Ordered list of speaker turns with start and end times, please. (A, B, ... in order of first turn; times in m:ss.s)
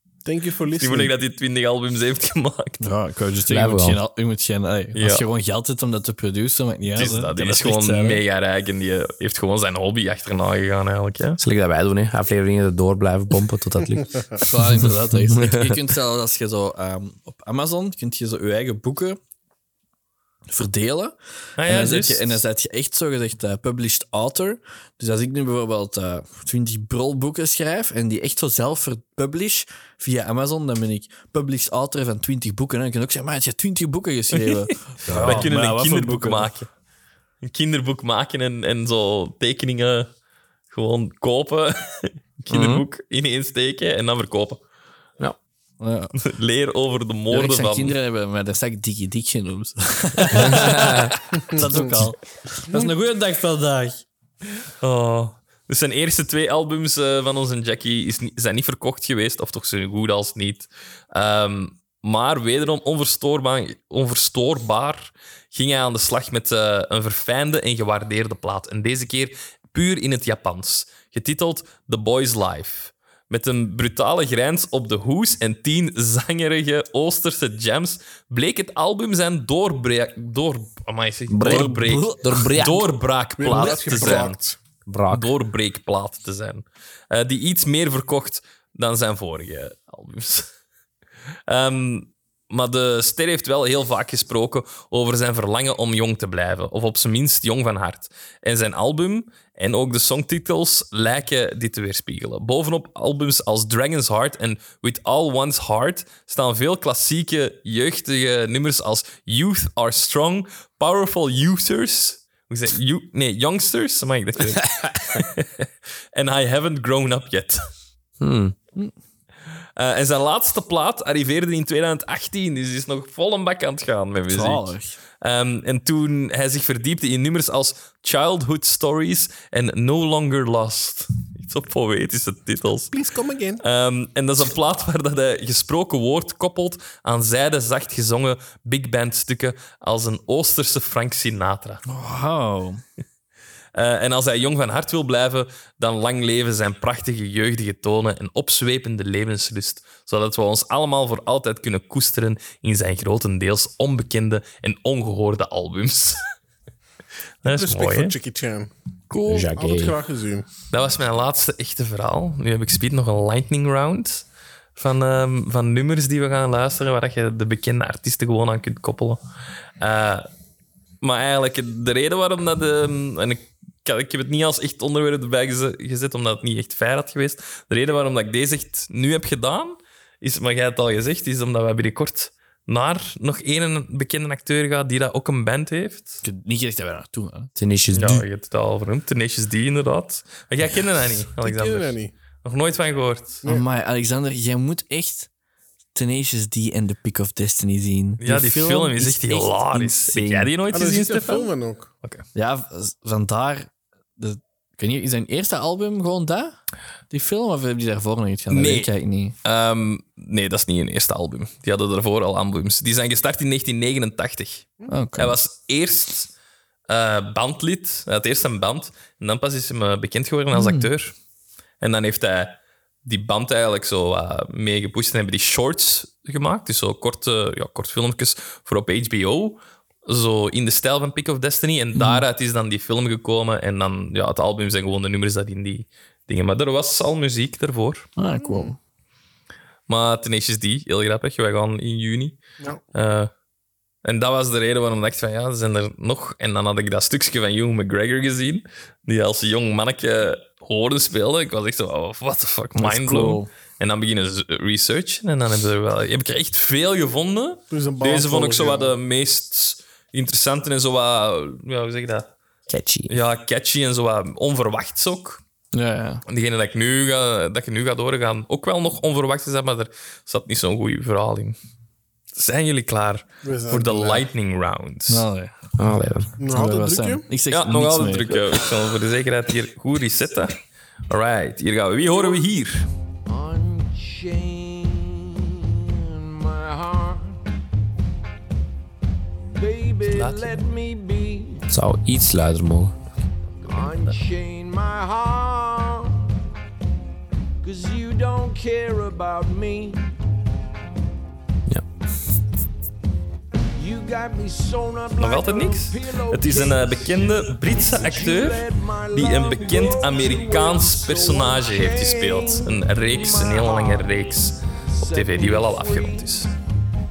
0:00.2-0:01.1 A
0:00.7-0:02.8 B
0:02.8-0:08.2 C
0:03.5-0:04.0 D
0:05.0-0:05.2 B
0:07.0-0:11.4 B
0:11.4-0:14.4 D
0:14.4-0:19.2 C
0:15.3-0:15.8 D
0:20.5-0:36.5 C
0:21.6-0:22.4 B
0:34.4-0:36.7 B
0:35.1-0:35.5 D
0:37.4-0:40.1 B
0:40.7-0:44.6 B
0:42.5-0:42.8 D
0:45.8-0:46.2 C
0:46.2-0:48.0 B
0:47.3-0:54.0 C
0:50.4-0:51.1 D
0:51.5-0:51.8 A
0:54.8-1:24.4 B
1:21.3-1:22.9 D
1:21.4-1:22.2 C
1:23.4-1:24.6 A
1:24.9-1:25.3 D
1:25.1-1:30.5 B
1:31.5-1:57.6 B
1:58.2-1:58.6 D
1:59.8-2:12.9 B
2:04.3-2:05.0 C
2:12.9-2:13.6 A
2:13.6-2:21.8 B
2:21.9-2:22.8 C
2:23.8-2:36.2 B
2:37.4-2:38.2 B
2:37.4-2:38.7 A
2:39.1-2:39.5 C
2:39.2-2:40.0 D
2:39.5-2:40.5 A
2:40.7-2:44.2 B
2:44.8-2:49.2 B
2:49.8-2:50.3 B
2:51.0-3:06.2 B
3:06.2-3:07.5 C
3:07.6-3:08.2 D
3:07.9-3:13.4 B
3:11.4-3:12.1 A
3:13.4-3:15.3 C
3:16.0-3:20.3 C
3:18.2-3:21.5 B
3:20.1-3:20.5 D
3:20.7-3:21.9 A
3:22.4-3:26.6 C
3:27.1-3:29.4 C
3:28.5-3:28.9 B
3:29.4-3:36.3 B
3:34.9-3:35.4 C
3:36.9-3:41.1 B
3:40.5-3:40.9 C
3:41.8-3:58.1 B
3:52.0-3:52.2 C
3:58.2-3:58.8 C
3:58.4-3:58.7 A
3:59.9-4:02.4 B
4:02.9-4:03.3 B
4:04.0-4:22.3 B
4:12.8-4:13.5 C
4:17.7-4:19.0 A
4:22.7-4:23.1 D
4:23.1-4:25.4 B
4:25.7-4:26.2 C
4:26.3-4:31.6 B
4:32.3-4:35.2 B
4:33.4-4:34.3 A
4:35.1-4:35.5 C
4:35.8-4:36.3 D
4:36.4-4:37.3 A
4:36.5-4:38.6 C
4:37.5-4:40.5 B
4:41.1-4:42.9 B
4:43.3-4:47.4 E
4:49.5-4:51.6 E
4:50.1-4:50.6 B
4:51.7-4:52.9 D
4:53.6-4:56.2 E
4:53.6-4:54.2 B
4:57.6-5:00.1 E
5:03.7-5:14.2 E
5:05.2-5:16.5 B
5:14.9-5:16.5 E